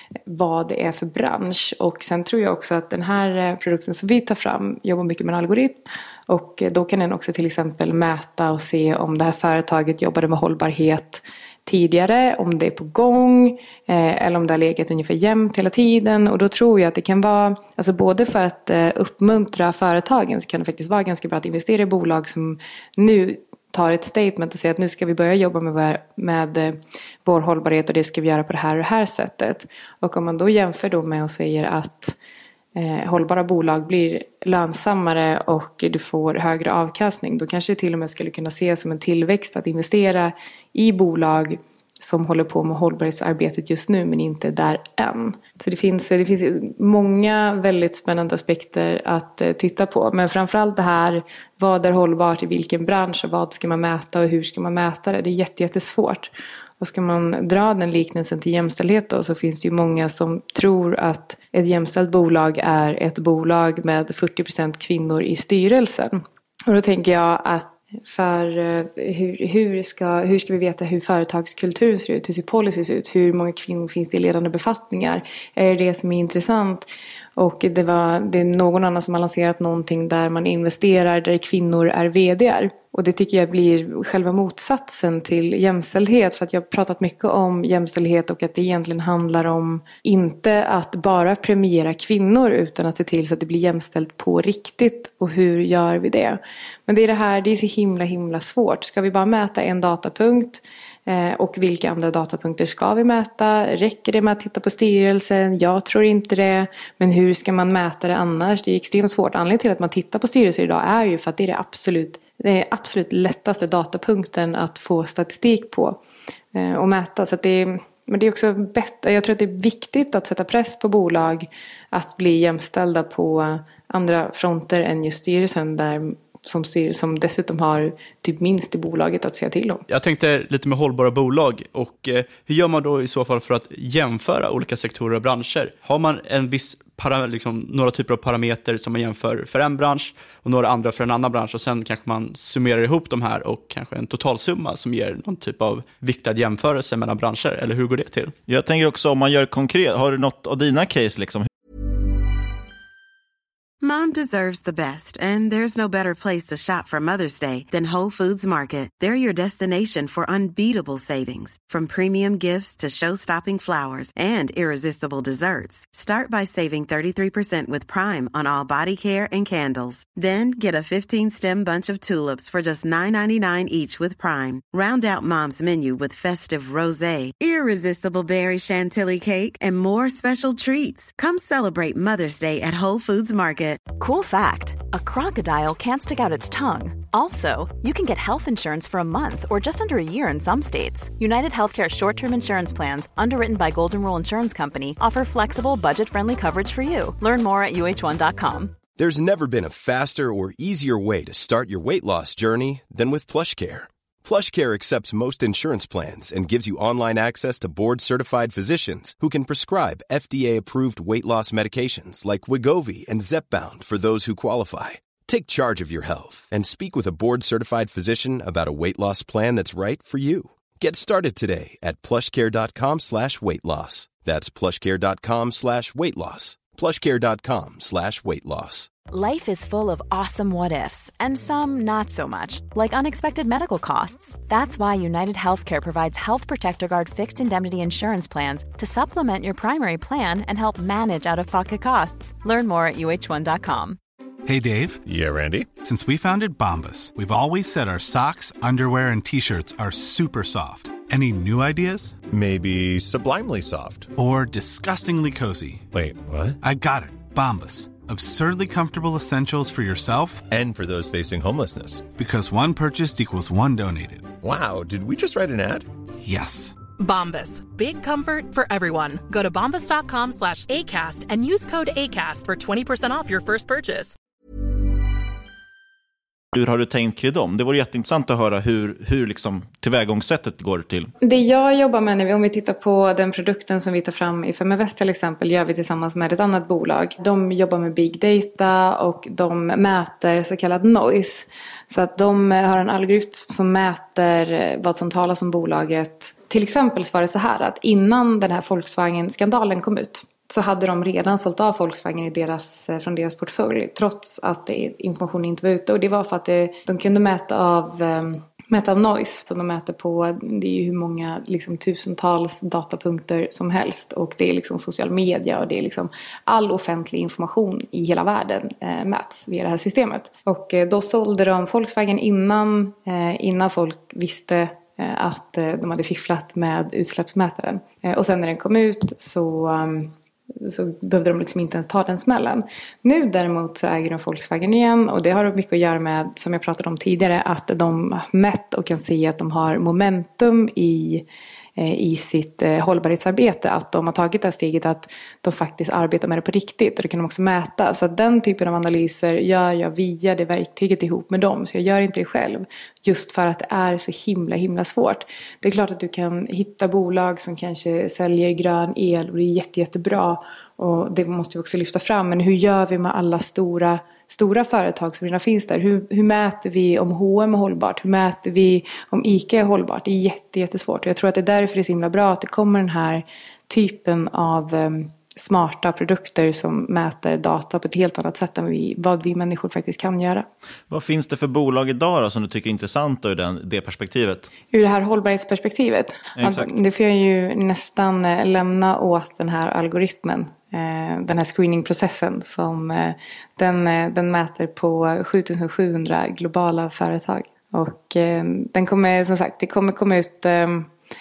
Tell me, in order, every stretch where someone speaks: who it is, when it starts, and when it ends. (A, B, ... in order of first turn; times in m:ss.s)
0:00.3-0:32.2 A
0:32.8-1:16.9 A
1:17.4-1:56.0 A
1:56.5-2:09.8 A
2:09.9-2:28.3 B
2:28.5-2:31.5 C
2:33.8-3:03.9 D
3:03.9-3:18.8 E
3:19.0-3:48.9 F
3:49.1-4:04.0 E
4:04.4-4:05.0 G
4:05.1-4:05.7 H
4:05.8-4:12.2 G
4:12.3-4:14.1 H
4:14.1-4:15.9 G
4:15.9-4:16.6 H
4:16.6-4:20.5 G
4:20.5-4:22.1 H
4:22.2-4:24.3 G
4:24.4-4:25.9 H
4:26.2-4:26.8 G
4:27.0-4:34.2 I
4:36.5-4:41.1 C
4:41.2-5:41.2 A
5:41.8-6:20.5 A
6:20.9-6:24.5 C
6:24.7-6:40.9 A
6:26.4-6:26.7 C